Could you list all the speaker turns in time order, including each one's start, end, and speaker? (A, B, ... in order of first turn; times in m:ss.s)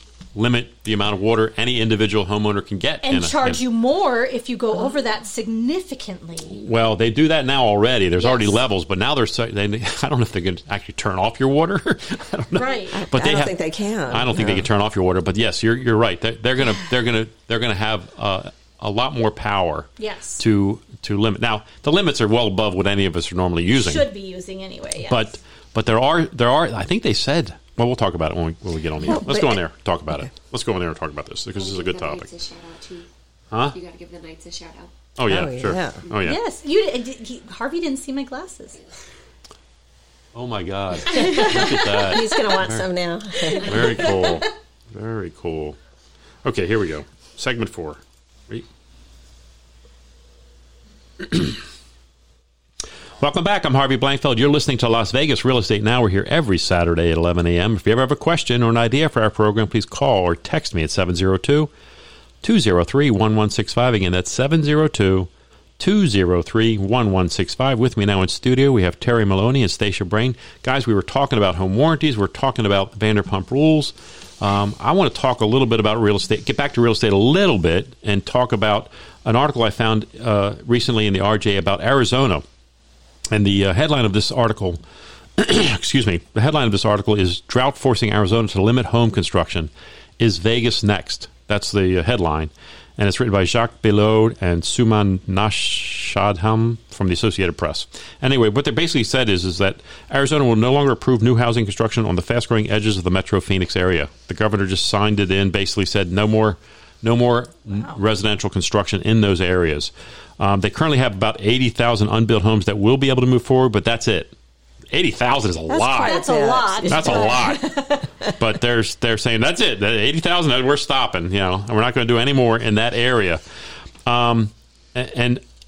0:00.3-0:03.6 A
0:03.0-0:06.6 B
0:06.5-0:24.1 A
0:08.2-0:08.6 B
0:12.5-0:13.0 B
0:12.9-0:14.7 C
0:20.0-0:20.4 B
0:23.7-0:25.4 B
0:25.1-0:32.3 A
0:29.0-0:30.2 C
0:31.5-0:33.1 D
0:33.6-0:34.9 D
0:35.2-0:36.4 A
0:35.3-0:36.0 C
0:36.2-0:38.8 B
0:40.3-0:42.8 A
0:41.0-0:41.9 B
0:41.1-0:44.3 C
0:43.6-0:45.8 A
0:46.4-0:48.6 A
0:51.2-0:51.6 A
0:53.2-1:01.7 A
1:02.4-1:22.4 A
1:23.3-1:24.8 A
1:25.4-1:54.3 A
1:54.9-1:56.2 A
1:55.7-1:57.6 C
1:55.9-1:58.1 B
1:56.8-1:57.6 A
1:58.3-2:03.4 A
2:04.0-2:05.4 A